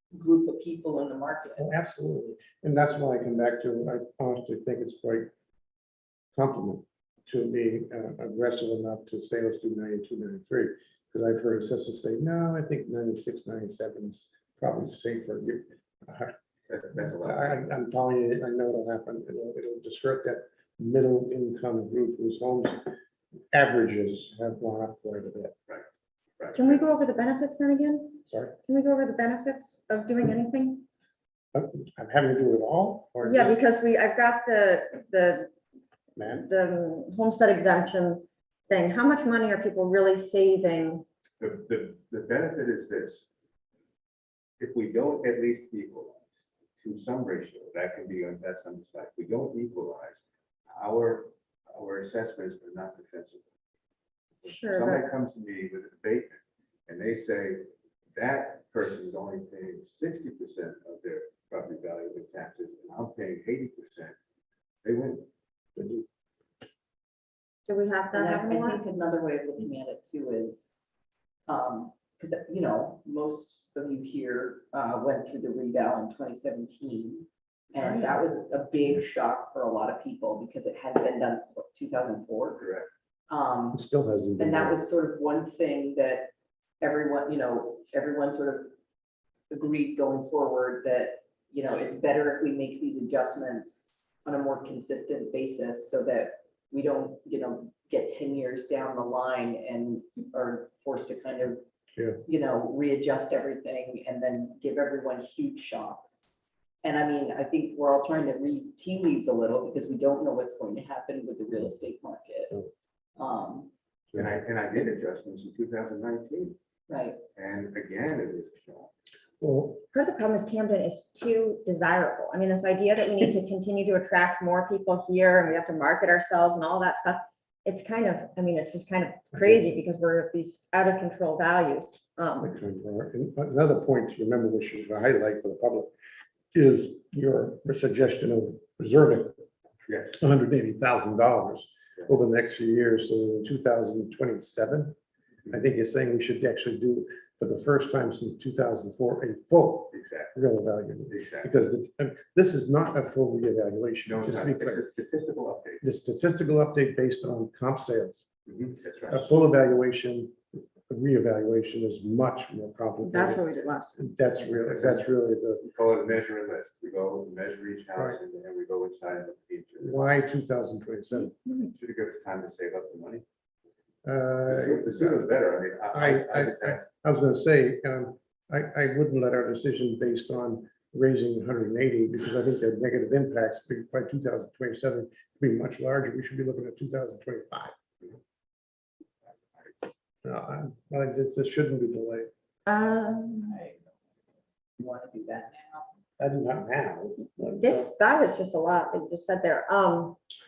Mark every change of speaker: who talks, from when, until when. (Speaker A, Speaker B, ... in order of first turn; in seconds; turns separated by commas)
Speaker A: 0.1-1.6, Speaker B: 1.6-5.3, Speaker B: 6.3-16.3, Speaker C: 16.7-17.6, Speaker B: 16.9-22.8, Speaker B: 23.5-25.5, Speaker C: 26.4-26.9, Speaker D: 26.6-30.9, Speaker B: 28.3-28.6, Speaker B: 31.5-33.6, Speaker D: 33.2-35.5, Speaker B: 36.2-36.5, Speaker D: 36.4-41.0, Speaker C: 41.4-43.2, Speaker C: 44.6-46.2, Speaker C: 46.8-50.2, Speaker C: 50.7-53.4, Speaker C: 54.4-64.2, Speaker D: 54.5-55.1, Speaker C: 64.8-65.3, Speaker B: 65.8-66.1, Speaker D: 67.7-68.8, Speaker A: 68.1-70.7, Speaker A: 71.5-82.7, Speaker D: 77.8-78.2, Speaker C: 82.6-82.9, Speaker A: 83.3-83.8, Speaker B: 83.7-84.8, Speaker A: 84.4-88.7, Speaker A: 89.5-101.6, Speaker A: 102.2-106.3, Speaker A: 106.8-112.6, Speaker A: 113.2-113.7, Speaker C: 114.2-116.6, Speaker A: 116.9-117.2, Speaker C: 117.3-118.9, Speaker B: 119.4-119.8, Speaker D: 119.9-132.5, Speaker B: 129.4-129.7, Speaker B: 132.4-135.9, Speaker B: 136.5-139.4, Speaker C: 139.9-140.2, Speaker B: 140.2-145.0, Speaker B: 145.5-154.8, Speaker C: 149.9-150.4, Speaker C: 151.1-151.5, Speaker C: 154.1-155.8, Speaker B: 155.8-158.2, Speaker C: 158.5-159.3, Speaker B: 159.1-163.4, Speaker D: 163.0-164.0, Speaker B: 164.0-165.7, Speaker C: 164.7-165.1, Speaker C: 165.6-170.0, Speaker B: 169.8-171.3, Speaker D: 171.1-171.7, Speaker C: 171.7-173.2, Speaker B: 174.1-175.3, Speaker C: 174.5-176.8, Speaker B: 175.9-187.7, Speaker B: 190.2-192.3, Speaker D: 192.7-193.6, Speaker A: 193.5-193.8, Speaker A: 194.8-195.9, Speaker B: 196.2-197.9, Speaker D: 197.6-200.2